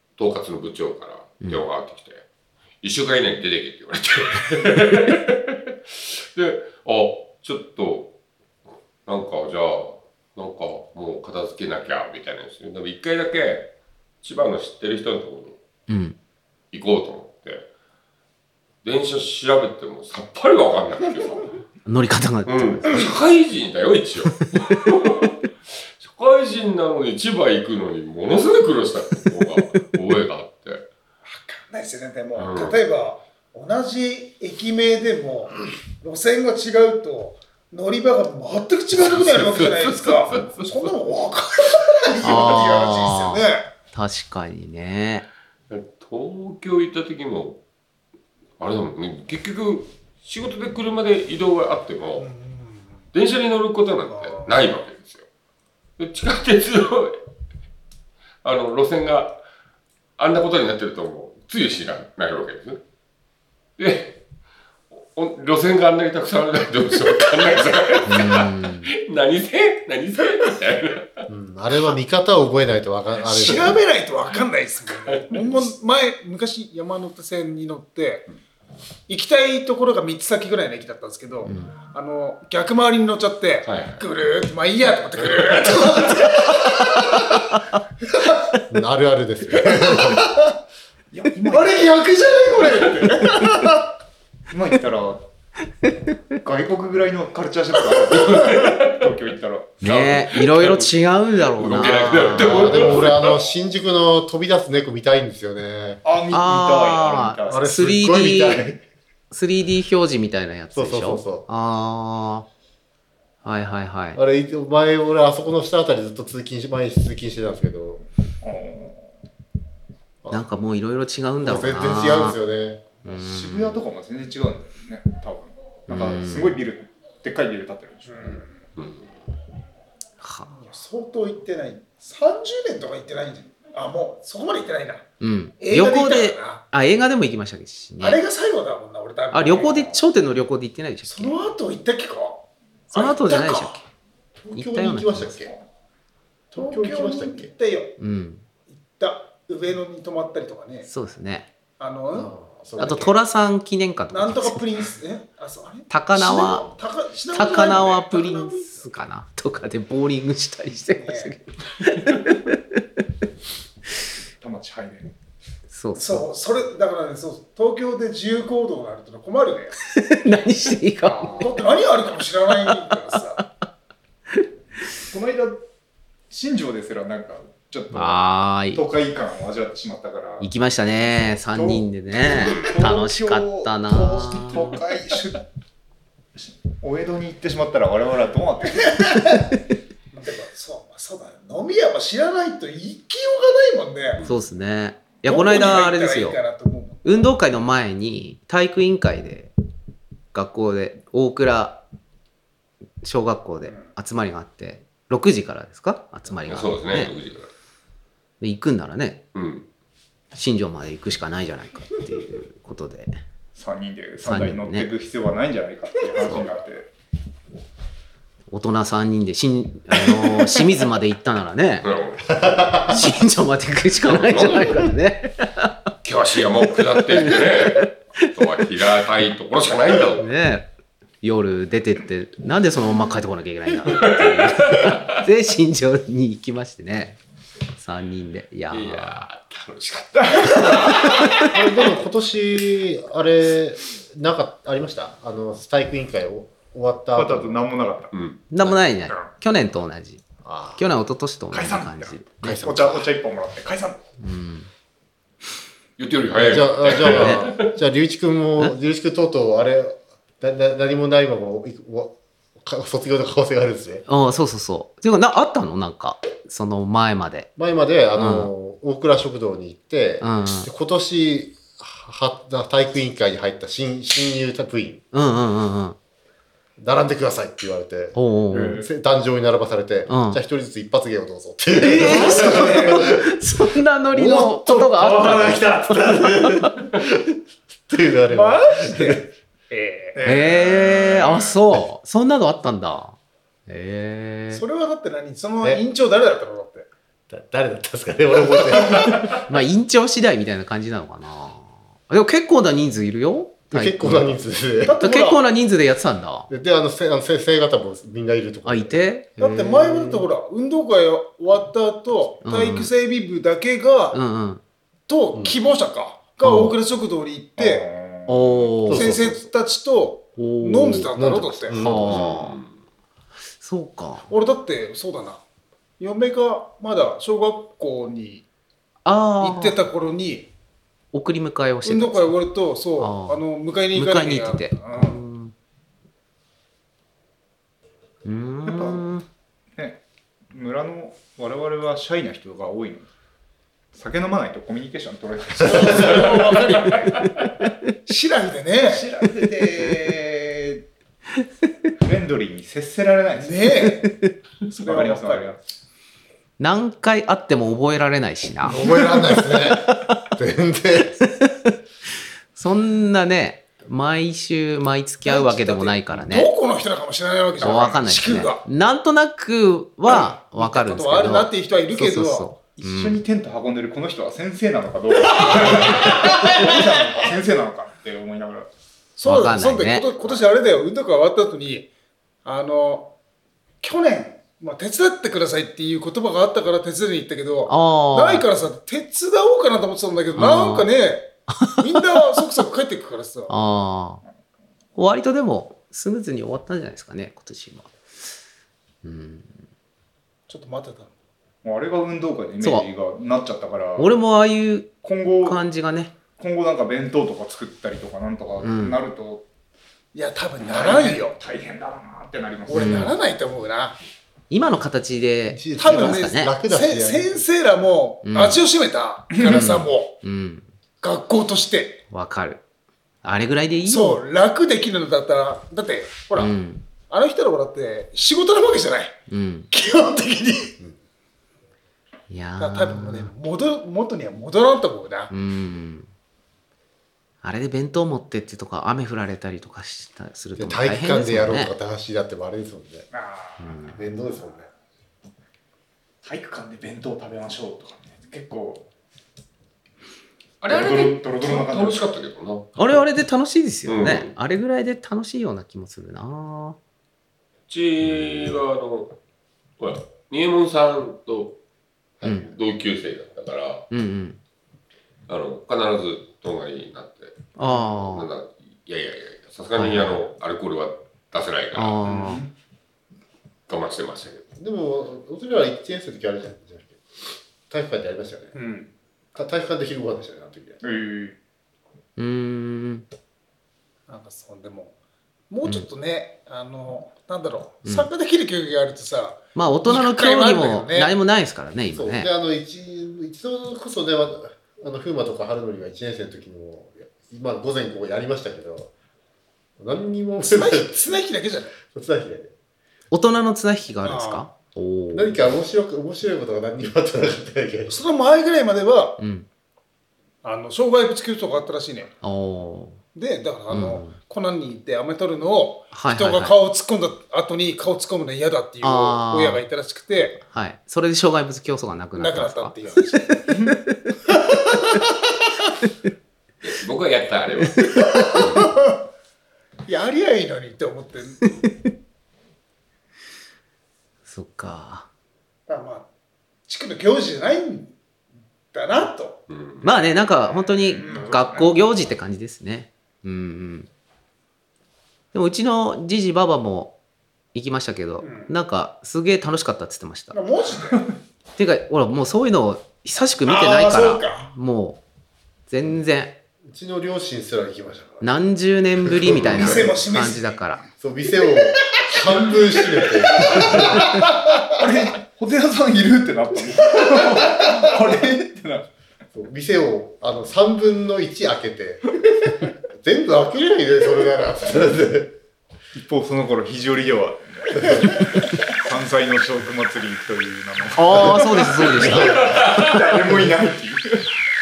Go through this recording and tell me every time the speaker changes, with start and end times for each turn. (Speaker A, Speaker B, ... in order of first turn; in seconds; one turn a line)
Speaker A: 0.2-2.2
Speaker A: 2.8-8.1
Speaker A: 8.7-15.6
Speaker B: 15.9-16.2
Speaker A: 16.7-17.7
Speaker A: 18.8-21.6
Speaker B: 21.9-23.1
Speaker A: 22.4-25.3
Speaker A: 26.0-30.8
Speaker C: 31.3-43.7
Speaker A: 32.3-32.8
Speaker A: 38.9-40.7
Speaker B: 42.2-45.3
Speaker A: 45.7-47.6
Speaker A: 48.6-52.3
Speaker C: 52.2-53.0
Speaker A: 53.1-55.2
Speaker C: 54.0-54.6
Speaker A: 56.0-57.1
Speaker A: 58.4-59.4
Speaker A: 60.2-62.8
Speaker A: 63.8-64.2
Speaker A: 64.9-71.2
Speaker B: 68.0-68.9
Speaker D: 71.3-73.8
Speaker C: 73.2-78.3
Speaker A: 74.9-75.7
Speaker C: 79.1-87.3
Speaker B: 81.5-81.8
Speaker A: 83.6-84.0
Speaker B: 87.1-87.6
Speaker D: 88.7-90.3
Speaker C: 89.6-90.5
Speaker E: 91.1-92.0
Speaker C: 91.5-93.8
Speaker E: 94.5-95.3
Speaker E: 96.3-99.9
Speaker A: 98.3-99.0
Speaker B: 99.8-102.9
Speaker A: 99.8-103.4
Speaker D: 102.4-106.0
Speaker E: 106.0-107.7
Speaker B: 106.3-108.7
Speaker D: 107.5-108.8
Speaker B: 109.3-112.5
Speaker D: 110.7-111.5
Speaker B: 113.4-114.2
Speaker D: 114.1-118.0
Speaker E: 118.4-119.2
Speaker D: 120.2-120.5
Speaker B: 120.3-122.4
Speaker D: 121.4-122.9
Speaker B: 123.0-123.8
Speaker E: 123.1-128.5
Speaker B: 125.9-126.5
Speaker C: 128.1-128.5
Speaker A: 128.8-129.1
Speaker B: 130.2-130.5
Speaker C: 130.4-135.0
Speaker B: 135.2-138.2
Speaker C: 135.6-136.6
Speaker C: 138.0-139.7
Speaker B: 139.3-141.4
Speaker E: 139.4-140.1
Speaker C: 141.0-143.8
Speaker B: 142.9-143.8
Speaker D: 144.4-145.5
Speaker B: 144.5-145.4
Speaker D: 146.5-147.5
Speaker C: 146.5-147.9
Speaker B: 148.0-148.4
Speaker C: 148.7-150.9
Speaker B: 150.8-151.5
Speaker C: 151.8-153.2
Speaker D: 152.1-153.1
Speaker B: 152.8-154.6
Speaker C: 154.1-158.9
Speaker B: 155.9-156.7
Speaker B: 157.3-162.6
Speaker C: 160.9-161.3
Speaker E: 164.4-165.1
Speaker B: 165.7-166.2
Speaker C: 165.9-169.8
Speaker B: 169.9-171.6
Speaker C: 171.0-173.4
Speaker E: 175.1-175.6
Speaker E: 176.3-178.2
Speaker B: 177.9-178.8
Speaker E: 178.7-185.4
Speaker B: 180.4-184.8
Speaker E: 186.3-189.2
Speaker C: 188.8-189.4
Speaker C: 190.1-194.2
Speaker A: 194.2-194.4
Speaker B: 194.2-196.4
Speaker C: 195.2-197.3
Speaker B: 197.0-199.5
Speaker B: 200.3-201.8
Speaker B: 203.0-207.1
Speaker A: 206.5-207.5
Speaker B: 208.4-209.2
Speaker A: 209.3-209.7
Speaker B: 210.3-213.1
Speaker E: 213.5-216.9
Speaker B: 214.2-214.9
Speaker B: 216.2-216.5
Speaker B: 218.5-221.9
Speaker A: 221.8-222.4
Speaker D: 222.4-223.0
Speaker B: 222.8-225.7
Speaker A: 224.0-224.8
Speaker A: 226.0-230.2
Speaker B: 226.9-228.3
Speaker B: 230.2-230.7
Speaker B: 231.2-237.2
Speaker A: 233.8-235.0
Speaker B: 237.8-239.2
Speaker A: 238.7-240.8
Speaker E: 240.5-241.1
Speaker B: 240.8-241.3
Speaker D: 241.5-247.6
Speaker E: 247.1-248.1
Speaker A: 248.1-248.8
Speaker B: 248.5-250.2
Speaker D: 250.4-250.9
Speaker B: 250.8-252.8
Speaker E: 251.5-254.0
Speaker D: 252.4-253.1
Speaker B: 254.2-254.7
Speaker A: 256.0-257.7
Speaker D: 256.3-264.0
Speaker B: 257.0-257.4
Speaker B: 264.1-267.5
Speaker D: 267.6-275.0
Speaker B: 268.1-268.5
Speaker B: 270.2-270.7
Speaker B: 275.1-276.0
Speaker D: 276.8-283.4
Speaker B: 278.1-278.8
Speaker E: 278.5-278.8
Speaker B: 280.1-280.4
Speaker B: 281.7-286.9
Speaker C: 282.3-283.0
Speaker D: 284.1-289.3
Speaker C: 288.3-290.2
Speaker E: 290.1-291.5
Speaker B: 290.2-294.6
Speaker C: 294.5-296.9
Speaker D: 297.3-299.4
Speaker B: 299.2-304.4
Speaker D: 303.7-305.0
Speaker C: 304.9-305.4
Speaker B: 304.9-306.5
Speaker D: 306.5-310.2
Speaker B: 308.6-309.4
Speaker C: 309.4-314.2
Speaker B: 312.4-312.9
Speaker B: 314.1-314.6
Speaker C: 315.1-317.9
Speaker B: 316.4-316.8
Speaker E: 317.6-318.8
Speaker B: 318.3-319.2
Speaker D: 318.9-319.5
Speaker C: 318.9-321.8
Speaker B: 320.4-321.1
Speaker D: 321.1-322.4
Speaker B: 321.7-322.6
Speaker A: 322.0-322.7
Speaker B: 323.6-324.3
Speaker C: 324.2-325.4
Speaker C: 326.0-328.4
Speaker B: 329.0-329.8
Speaker C: 329.4-330.5
Speaker B: 331.1-332.4
Speaker C: 331.8-335.2
Speaker B: 333.0-335.5
Speaker B: 338.2-339.2
Speaker E: 338.6-339.1
Speaker E: 339.8-340.0
Speaker E: 340.5-343.1
Speaker E: 343.9-347.1
Speaker C: 345.6-346.9
Speaker B: 346.9-347.6
Speaker C: 348.1-349.0
Speaker E: 348.8-350.9
Speaker E: 352.0-353.7
Speaker C: 353.4-355.5
Speaker E: 354.7-355.6
Speaker B: 356.6-358.8
Speaker D: 358.6-361.2
Speaker C: 358.8-359.4
Speaker B: 362.5-366.5
Speaker C: 365.2-368.6
Speaker B: 367.6-373.2
Speaker C: 370.1-372.6
Speaker E: 372.8-378.7
Speaker C: 375.3-376.7
Speaker C: 379.2-381.9
Speaker B: 379.2-380.1
Speaker C: 382.4-383.1
Speaker C: 383.8-393.5
Speaker B: 387.7-388.5
Speaker B: 390.3-390.9
Speaker B: 393.5-394.2
Speaker B: 394.9-397.9
Speaker B: 399.0-399.6
Speaker C: 400.5-401.1
Speaker E: 401.6-404.1
Speaker B: 402.6-402.9
Speaker B: 404.0-406.1
Speaker E: 405.0-405.6
Speaker E: 406.4-409.4
Speaker B: 408.6-409.0
Speaker C: 410.1-411.4
Speaker E: 410.6-413.1
Speaker C: 412.7-414.0
Speaker B: 412.7-413.1
Speaker B: 414.5-416.5
Speaker D: 415.5-417.3
Speaker C: 415.8-420.1
Speaker B: 418.2-418.6
Speaker E: 419.3-419.7
Speaker B: 419.4-420.7
Speaker C: 421.0-422.0
Speaker B: 422.1-422.6
Speaker B: 423.2-424.2
Speaker C: 423.9-426.5
Speaker B: 426.3-426.9
Speaker C: 427.1-429.1
Speaker B: 429.3-429.7
Speaker C: 429.7-430.7
Speaker B: 432.3-433.3
Speaker C: 432.6-435.3
Speaker B: 435.3-436.1
Speaker B: 437.4-441.7
Speaker D: 440.6-443.1
Speaker E: 443.1-443.8
Speaker B: 443.6-444.0
Speaker D: 443.9-444.7
Speaker E: 446.2-448.9
Speaker A: 450.6-452.8
Speaker E: 450.6-452.1
Speaker B: 452.8-456.8
Speaker A: 453.9-454.3
Speaker A: 457.7-459.2
Speaker A: 459.8-461.6
Speaker D: 462.2-462.5
Speaker B: 462.2-462.5
Speaker A: 462.3-463.9
Speaker B: 463.9-464.4
Speaker A: 465.3-467.6
Speaker B: 467.6-468.3
Speaker E: 467.6-467.9
Speaker A: 468.1-472.0
Speaker B: 469.8-470.2
Speaker B: 471.7-472.4
Speaker E: 472.0-472.5
Speaker A: 473.7-474.4
Speaker D: 474.6-477.0
Speaker D: 477.7-478.5
Speaker C: 478.5-478.9
Speaker D: 479.3-480.8
Speaker E: 480.8-481.4
Speaker B: 482.2-483.1
Speaker C: 484.1-484.9
Speaker C: 485.5-491.1
Speaker B: 487.8-488.1
Speaker B: 489.5-492.3
Speaker D: 491.9-498.9
Speaker D: 499.8-501.1
Speaker C: 500.4-501.8
Speaker D: 501.9-502.5
Speaker B: 503.1-505.4
Speaker C: 504.0-504.5
Speaker D: 505.1-508.0
Speaker C: 507.9-509.2
Speaker B: 509.2-509.5
Speaker C: 510.4-512.1
Speaker B: 512.2-513.0
Speaker C: 513.1-520.4
Speaker B: 513.7-514.1
Speaker B: 515.9-516.6
Speaker B: 518.8-519.6
Speaker B: 520.4-522.8
Speaker C: 522.1-523.6
Speaker B: 523.7-524.1
Speaker A: 526.6-528.5
Speaker B: 527.8-528.5
Speaker C: 528.2-528.9
Speaker C: 529.9-531.5
Speaker B: 531.6-531.9
Speaker B: 534.2-535.1
Speaker C: 535.7-536.1
Speaker C: 536.7-538.0
Speaker C: 538.7-541.4
Speaker A: 539.5-539.9
Speaker B: 539.8-543.9
Speaker E: 540.9-541.8
Speaker B: 545.3-547.0
Speaker B: 547.5-550.4
Speaker C: 548.2-548.5
Speaker C: 550.3-551.0
Speaker B: 551.5-555.0
Speaker C: 553.4-554.5
Speaker B: 555.7-556.4
Speaker D: 556.6-558.3
Speaker B: 558.2-560.8
Speaker D: 559.2-559.8
Speaker C: 559.5-560.8
Speaker D: 561.0-564.2
Speaker C: 563.5-564.1
Speaker E: 564.8-568.9
Speaker D: 569.3-572.1
Speaker D: 572.9-575.3
Speaker E: 575.9-578.2
Speaker E: 578.8-584.3
Speaker B: 581.0-582.8
Speaker D: 581.1-583.4
Speaker A: 582.5-582.8